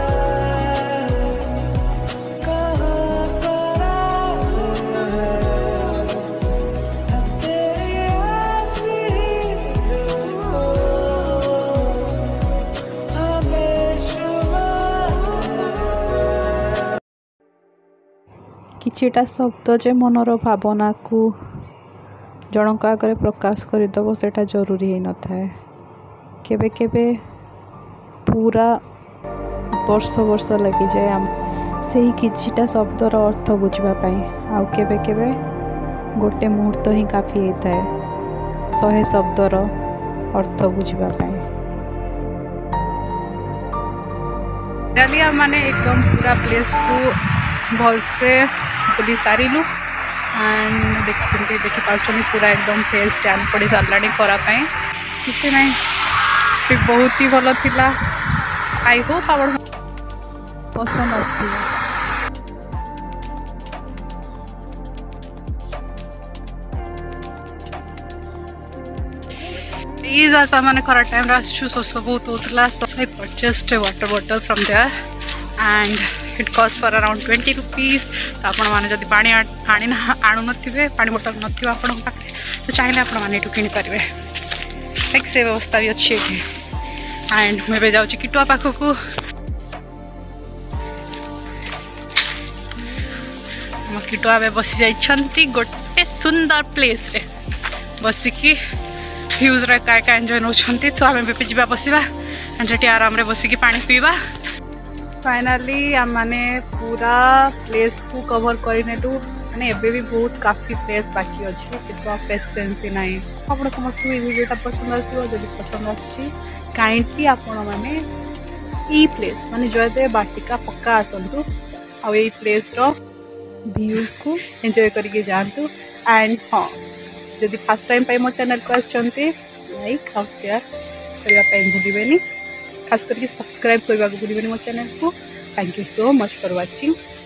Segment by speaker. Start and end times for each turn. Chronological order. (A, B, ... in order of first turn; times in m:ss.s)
0:18.8-0:21.3 A
0:22.5-0:25.5 A
0:26.4-0:27.2 A
0:28.2-0:28.8 A
0:29.8-0:31.3 A
0:31.9-0:35.4 A
0:36.2-0:37.9 A
0:38.7-0:39.7 A
0:40.3-0:41.5 A
0:44.9-0:49.7 B
0:50.3-0:54.7 B
0:55.2-0:55.8 B
0:56.7-0:58.0 B
0:58.8-0:59.6 B
1:00.7-1:01.7 A
1:10.0-1:15.0 B
1:15.6-1:24.1 B
1:25.1-1:26.5 B
1:27.3-1:29.0 B
1:33.8-1:37.3 B
1:38.0-1:38.6 B
1:39.4-1:44.2 B
1:45.2-1:58.0 B
1:58.9-2:01.4 B
2:02.0-2:02.9 B
2:03.7-2:04.4 A
2:04.5-2:06.8 B
2:07.4-2:10.6 B
2:11.2-2:12.2 B
2:12.9-2:17.0 B